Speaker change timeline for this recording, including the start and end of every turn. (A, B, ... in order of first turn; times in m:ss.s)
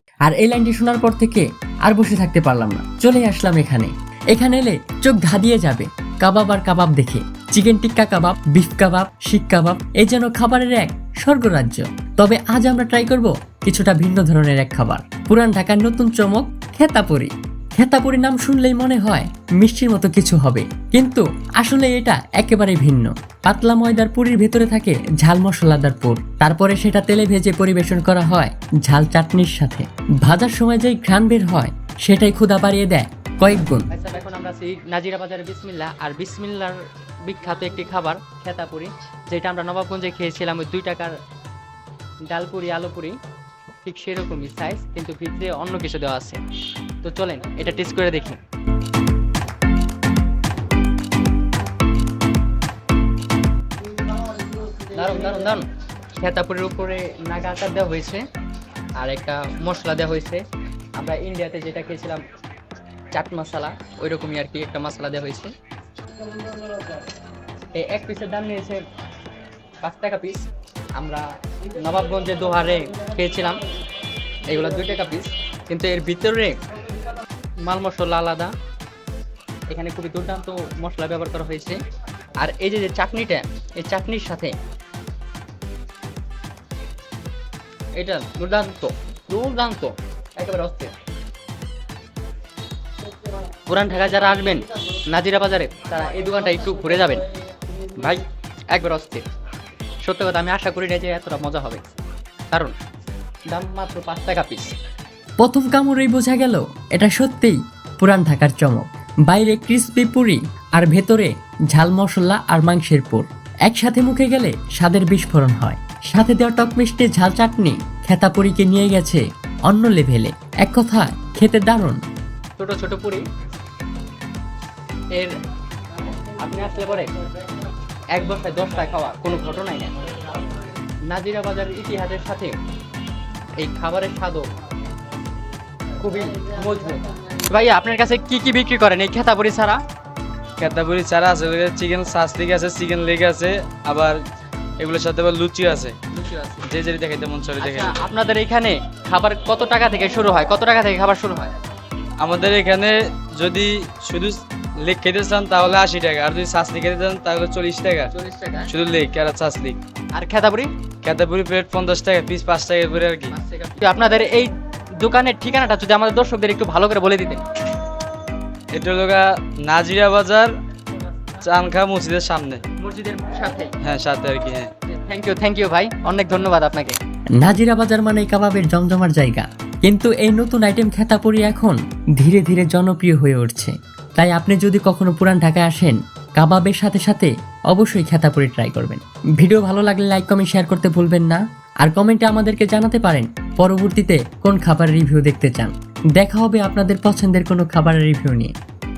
0:00.2-0:33.9 A
0:33.9-0:41.1 B
0:42.3-0:43.2 B
0:43.8-0:46.4 B
0:47.0-0:48.4 B
0:54.9-0:55.6 B
0:56.2-0:58.2 B
0:59.0-1:00.4 B
1:01.0-1:02.2 B
1:03.1-1:05.5 B
1:07.7-1:08.8 B
1:09.8-1:11.2 B
1:11.8-1:13.6 B
1:14.5-1:16.6 B
1:17.6-1:18.5 B
1:19.7-1:21.8 B
1:22.4-1:24.5 B
1:28.0-1:30.9 B
1:33.7-1:37.2 B
1:38.0-1:39.2 B
1:40.0-1:41.8 B
1:43.5-1:44.7 B
1:45.4-2:02.0 A
2:02.6-2:03.2 B
2:06.4-2:07.1 B
2:08.1-2:09.9 B
2:11.1-2:12.6 B
2:13.6-2:14.5 B
2:16.0-2:19.8 B
2:20.6-2:24.2 C
2:24.8-2:26.0 C
2:26.1-2:26.7 B
2:26.6-2:28.0 C
2:27.6-2:31.5 B
2:32.2-2:38.1 C
2:38.1-2:38.7 B
2:38.7-2:39.8 C
2:40.1-2:40.7 B
2:41.0-2:43.4 C
2:43.3-2:47.4 B
2:48.7-2:50.5 C
2:51.4-2:52.6 C
2:52.8-2:53.7 B
2:53.8-2:54.7 C
2:54.9-2:57.0 B
2:57.4-3:18.5 A